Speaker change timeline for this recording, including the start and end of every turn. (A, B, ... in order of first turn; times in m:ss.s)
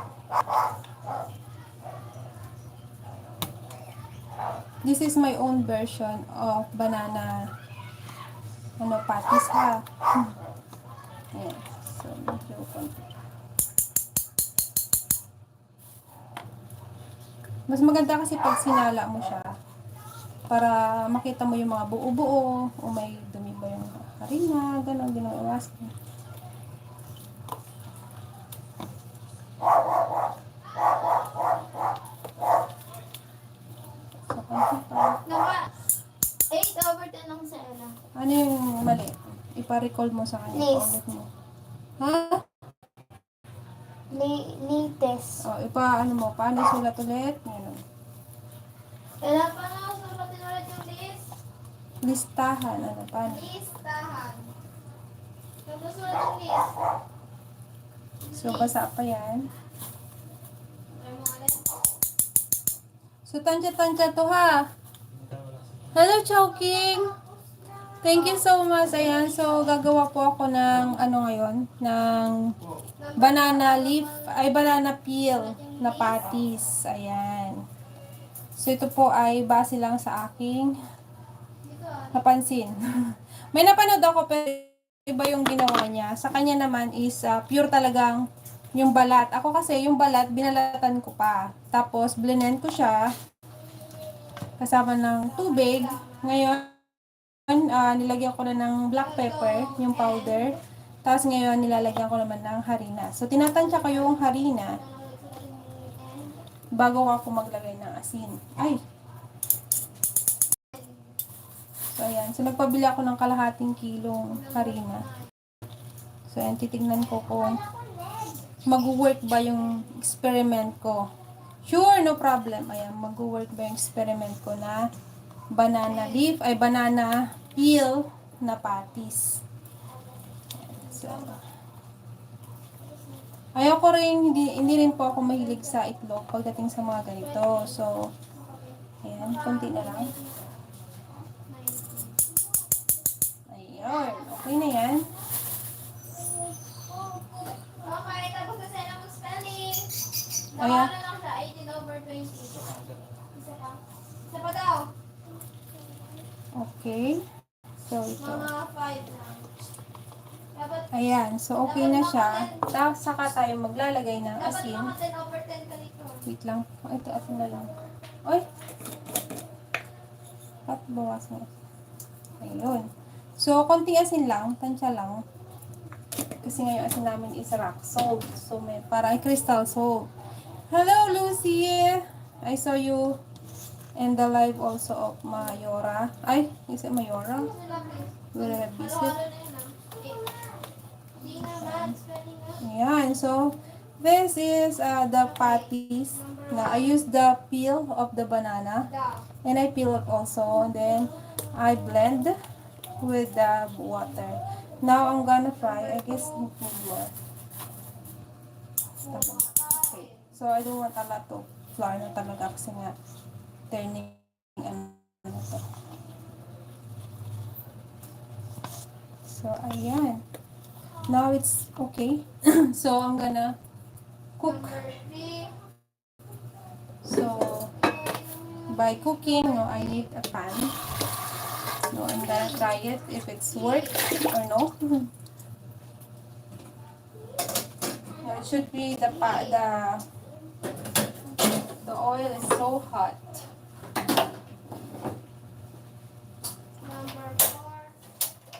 0:04.8-0:07.4 A
0:08.8-0:10.3 A
0:11.3-0:13.0 A
0:17.7-0:19.5 A
0:20.5-0:25.9 A
0:34.3-0:35.2 A
0:35.2-0:35.6 B
0:36.5-0:38.0 B
0:38.1-0:41.3 A
0:40.5-0:41.0 B
0:42.0-0:42.4 A
0:44.1-0:45.4 B
0:45.4-0:47.8 A
0:49.2-0:51.3 B
0:52.0-0:53.5 A
0:53.2-0:54.5 B
0:55.6-0:56.9 B
0:58.2-0:58.7 B
0:58.3-0:59.5 A
1:01.0-1:01.7 B
1:03.2-1:04.6 A
1:05.9-1:07.1 A
1:06.5-1:09.6 B
1:08.0-1:12.4 A
1:13.0-1:16.4 B
1:13.2-1:17.6 A
1:18.6-1:20.7 A
1:21.6-1:22.2 B
1:22.1-1:22.8 A
1:23.5-1:28.2 A
1:28.7-1:33.1 A
1:34.6-1:36.8 A
1:35.3-1:36.4 B
1:37.5-1:44.8 A
1:39.0-1:40.6 B
1:43.4-1:46.4 B
1:46.7-1:48.8 A
1:50.7-1:51.1 B
1:51.9-1:55.0 A
1:54.3-1:55.1 B
1:56.3-1:57.6 A
1:57.0-1:58.6 B
1:58.6-2:01.0 A
2:01.6-2:04.8 A
2:05.5-2:09.2 A
2:05.9-2:06.4 B
2:10.6-2:11.4 A
2:10.8-2:11.4 B
2:12.8-2:13.2 B
2:13.5-2:18.1 A
2:14.9-2:15.8 B
2:17.1-2:20.6 B
2:19.0-2:20.1 A
2:21.5-2:22.3 B
2:23.5-2:25.1 A
2:23.9-2:24.7 B
2:26.7-2:32.8 B
2:30.6-2:30.9 A
2:33.3-2:34.9 B
2:36.6-2:37.2 A
2:37.9-2:38.5 A
2:38.2-2:39.5 B
2:40.5-2:40.9 B
2:40.9-2:44.9 A
2:41.6-2:42.7 B
2:44.4-2:46.3 B
2:46.2-2:47.7 A
2:50.6-2:51.5 A
2:52.4-2:52.8 A
2:53.4-2:55.2 A
2:56.4-3:00.1 A
3:00.7-3:03.2 A
3:04.0-3:07.5 A
3:07.4-3:10.5 B
3:08.3-3:09.2 A
3:11.2-3:12.6 B
3:11.5-3:11.9 A
3:12.6-3:18.8 A
3:15.2-3:17.0 B
3:18.9-3:19.2 B
3:19.4-3:22.3 A
3:23.0-3:27.1 A
3:25.6-3:26.4 B
3:29.0-3:30.3 B
3:29.0-3:32.9 A
3:33.7-3:35.6 A
3:39.2-3:40.2 A
3:41.1-3:43.5 A
3:44.4-3:44.8 A
3:44.4-3:45.6 B
3:47.0-3:47.7 A
3:47.6-3:50.1 B
3:48.7-3:50.8 A
3:51.9-3:55.1 A
3:52.1-3:52.8 B
3:53.5-3:54.0 B
3:58.2-4:00.0 A
3:58.2-3:58.5 B
3:59.1-3:59.6 B
4:01.8-4:03.4 A
4:06.8-4:08.0 B